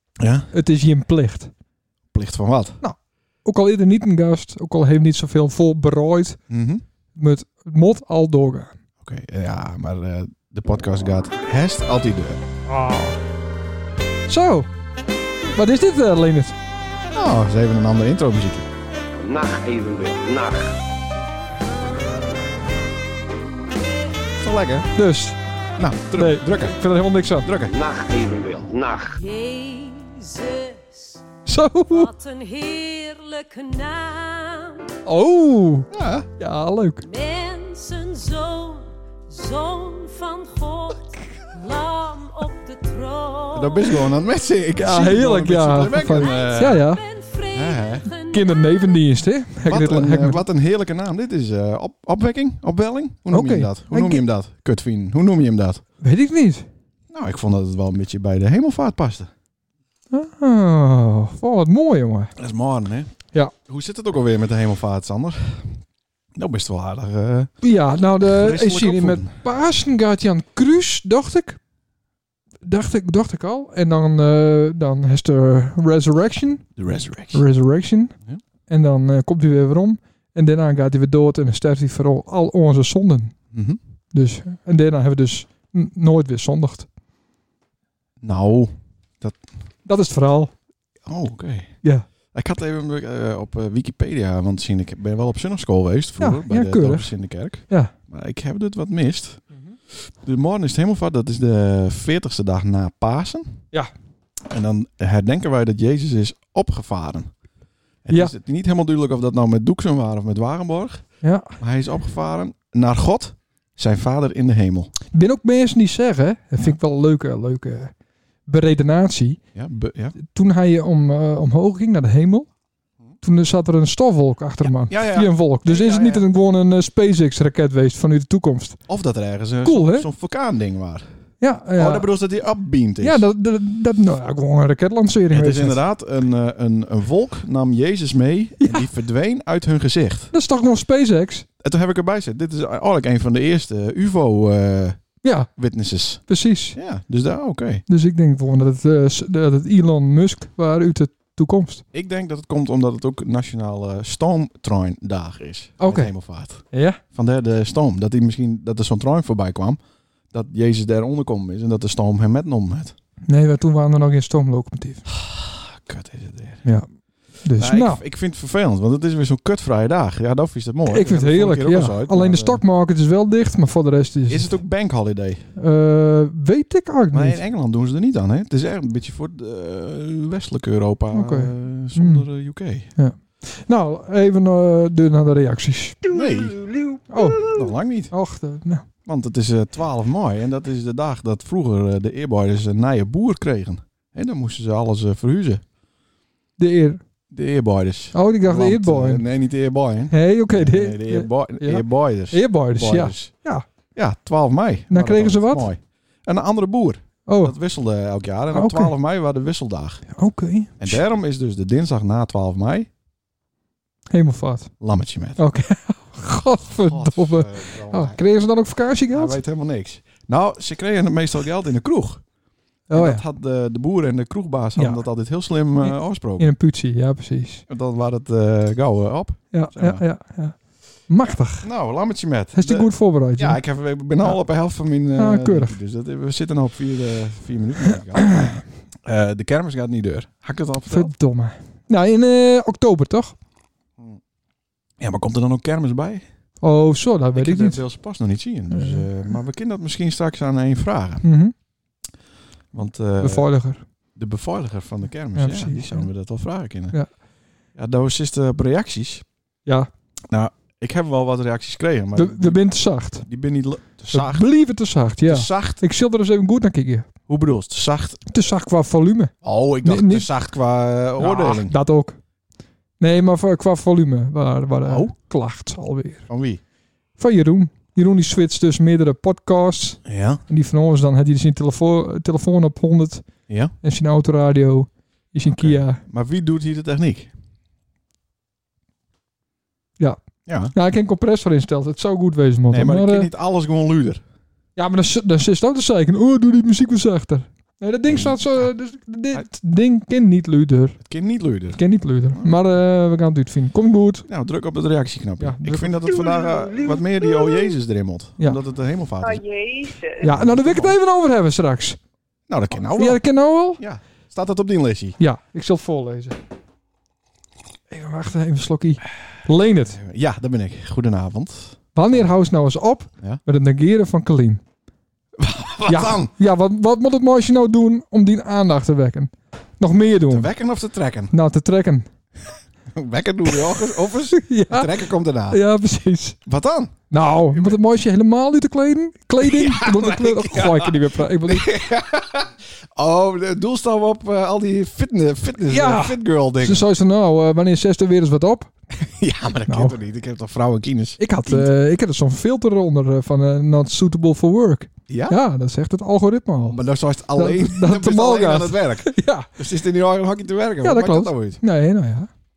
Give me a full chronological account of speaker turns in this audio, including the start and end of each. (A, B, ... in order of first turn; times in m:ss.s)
0:00.2-0:00.5 A
0:00.5-0:01.5 B
0:02.1-0:02.8 A
0:02.8-0:06.4 B
0:06.5-0:06.8 A
0:07.2-0:08.7 B
0:09.0-0:12.4 A
0:12.7-0:13.2 B
0:14.3-0:14.7 B
0:15.5-0:16.6 B
0:17.1-0:18.6 A
0:19.2-0:20.8 C
0:24.4-0:24.9 A
0:25.0-0:25.4 B
0:25.8-0:26.8 A
0:26.1-0:27.5 B
0:27.4-0:27.7 A
0:27.7-0:29.2 C
0:29.1-0:31.3 D
0:31.4-0:32.1 B
0:31.9-0:34.9 D
0:35.0-0:35.9 B
0:35.9-0:36.3 A
0:36.4-0:37.0 B
0:37.0-0:44.1 D
0:43.5-0:46.8 A
0:44.8-0:47.0 B
0:45.9-0:49.0 D
0:47.5-0:48.0 A
0:48.3-0:50.4 B
0:49.6-0:55.8 A
0:53.3-0:54.2 B
0:56.0-0:56.6 B
0:57.1-0:59.3 A
1:00.1-1:02.3 B
1:02.4-1:03.1 A
1:03.6-1:05.8 A
1:06.4-1:07.5 A
1:07.6-1:11.6 B
1:08.2-1:09.4 A
1:12.6-1:16.7 B
1:16.8-1:17.4 A
1:17.3-1:18.1 B
1:18.7-1:23.3 B
1:23.5-1:23.8 A
1:24.1-1:26.9 B
1:28.2-1:29.4 A
1:29.8-1:30.5 B
1:31.1-1:31.8 A
1:32.3-1:39.4 A
1:36.2-1:37.1 B
1:39.9-1:43.6 A
1:44.4-1:47.3 A
1:48.0-1:51.0 A
1:51.2-1:51.6 B
1:51.6-1:54.9 A
1:55.1-1:57.9 B
1:58.5-1:59.4 B
1:59.5-2:00.2 A
2:00.2-2:02.5 B
2:03.2-2:08.8 B
2:04.6-2:06.2 A
2:08.9-2:11.0 A
2:09.6-2:10.1 B
2:11.4-2:12.1 B
2:11.8-2:13.2 A
2:13.0-2:15.8 B
2:15.3-2:20.3 A
2:18.6-2:18.9 B
2:20.3-2:21.4 B
2:21.6-2:25.0 A
2:25.2-2:25.5 B
2:25.5-2:27.8 A
2:26.3-2:26.8 B
2:27.9-2:31.8 B
2:31.9-2:39.8 A
2:35.8-2:36.1 B
2:36.7-2:37.0 B
2:40.3-2:42.9 A
2:43.3-2:45.0 B
2:45.1-2:46.7 A
2:47.4-2:48.0 B
2:47.6-2:52.6 A
2:50.9-2:54.6 B
2:54.3-2:55.5 A
2:55.6-2:57.4 B
2:57.1-3:02.9 A
3:01.1-3:02.2 B
3:03.0-3:06.0 B
3:06.1-3:06.7 A
3:07.1-3:07.6 B
3:07.5-3:08.1 A
3:08.1-3:08.8 B
3:09.0-3:15.6 A
3:16.6-3:17.0 B
3:17.3-3:23.3 A
3:18.1-3:19.2 B
3:20.1-3:23.6 B
3:23.9-3:30.0 A
3:24.9-3:25.7 B
3:27.3-3:27.5 B
3:28.5-3:28.9 B
3:30.2-3:31.0 B
3:30.8-3:32.9 A
3:34.1-3:34.7 B
3:34.8-3:35.4 A
3:35.4-3:39.4 B
3:36.8-3:38.2 A
3:39.1-3:42.2 A
3:42.9-3:43.2 B
3:42.9-3:46.5 A
3:44.8-3:45.0 B
3:45.8-3:47.6 B
3:47.7-3:50.0 A
3:49.5-3:50.6 B
3:51.1-3:51.7 B
3:51.6-4:01.1 A
3:52.6-3:53.6 B
3:55.2-3:55.8 B
4:00.9-4:03.3 B
4:05.0-4:06.2 A
4:06.6-4:07.8 B
4:07.3-4:11.2 A
4:08.7-4:09.1 B
4:11.2-4:11.5 B
4:12.7-4:13.5 A
4:13.2-4:13.8 B
4:14.2-4:17.0 A
4:15.4-4:16.1 B
4:17.8-4:19.2 A
4:20.3-4:22.6 A
4:22.1-4:23.3 B
4:23.2-4:24.5 A
4:24.1-4:27.1 B
4:25.2-4:25.8 A
4:27.3-4:28.2 A
4:28.3-4:29.3 B
4:29.4-4:31.7 A
4:29.8-4:30.3 B
4:31.2-4:32.2 B
4:33.0-4:36.3 B
4:34.8-4:35.1 A
4:36.3-4:36.6 A
4:37.2-4:43.2 B
4:40.0-4:40.4 A
4:43.5-4:43.7 A
4:43.8-4:46.0 B
4:45.5-4:47.3 A
4:50.5-4:50.7 A
4:50.7-4:53.3 B
4:52.7-4:54.2 A
4:54.8-5:01.0 B
4:58.1-4:58.4 A
5:01.0-5:01.8 A
5:01.7-5:04.3 B
5:04.3-5:09.5 A
5:05.4-5:06.3 B
5:09.5-5:10.1 C
5:10.2-5:12.0 B
5:10.2-5:11.0 A
5:12.5-5:13.2 A
5:12.8-5:13.8 B
5:13.8-5:15.2 A
5:15.2-5:16.4 B
5:17.9-5:20.0 B
5:19.7-5:22.3 A
5:21.9-5:24.6 B
5:25.4-5:26.3 A
5:25.9-5:30.5 B
5:30.3-5:31.3 A
5:31.3-5:32.0 B
5:32.9-5:35.6 A
5:34.3-5:36.4 B
5:36.4-5:37.0 A
5:37.1-5:41.7 B
5:37.5-5:37.8 A
5:39.4-5:46.8 A
5:45.6-5:48.7 B
5:49.0-5:51.7 A
5:49.7-5:49.9 B
5:51.2-5:56.8 B
5:55.1-5:55.4 A
5:56.7-6:01.6 A
5:57.4-5:59.5 B
6:00.8-6:02.3 B